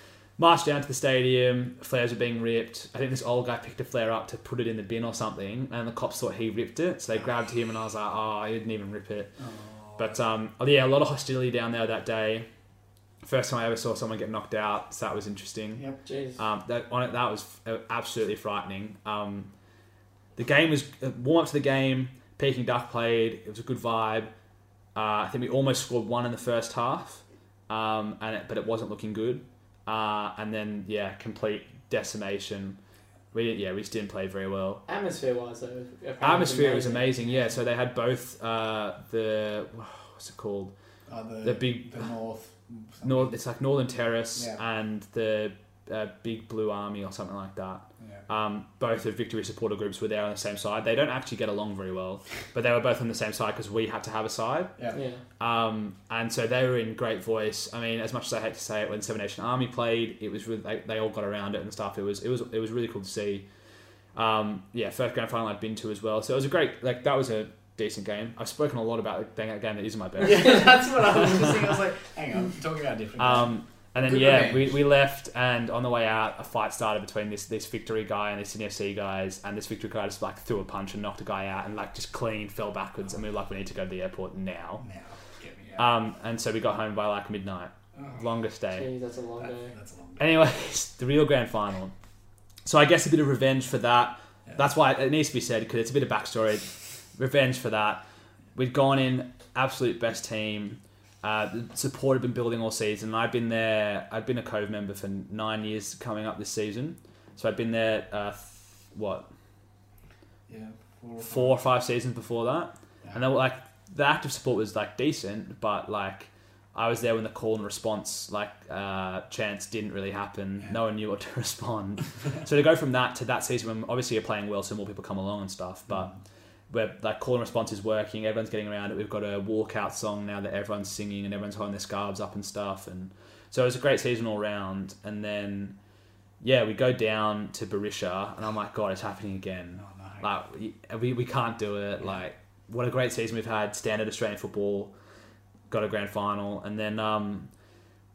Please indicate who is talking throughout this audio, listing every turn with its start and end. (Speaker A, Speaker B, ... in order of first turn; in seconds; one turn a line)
Speaker A: 0.4-9.3
Speaker B: 9.4-10.2
Speaker A: 10.0-12.5
Speaker A: 13.2-15.8
Speaker C: 16.1-16.4
Speaker A: 16.4-19.5
Speaker A: 20.4-24.3
Speaker A: 24.9-32.8
Speaker A: 33.3-34.8
Speaker C: 34.9-37.4
Speaker A: 36.2-40.7
Speaker B: 41.1-43.4
Speaker A: 41.4-42.1
Speaker A: 43.0-54.7
Speaker B: 44.4-44.6
Speaker C: 54.9-55.2
Speaker A: 55.4-63.5
Speaker A: 64.1-71.8
Speaker B: 70.2-74.8
Speaker A: 73.2-84.8
Speaker B: 84.8-85.9
Speaker A: 85.8-88.9
Speaker B: 88.0-88.2
Speaker C: 88.7-89.7
Speaker B: 89.7-90.3
Speaker A: 90.2-91.9
Speaker A: 92.6-98.0
Speaker A: 98.5-109.3
Speaker B: 110.5-111.6
Speaker A: 111.2-126.1
Speaker B: 125.9-126.2
Speaker A: 126.7-135.8
Speaker A: 136.4-144.9
Speaker B: 139.8-140.3
Speaker A: 145.7-147.5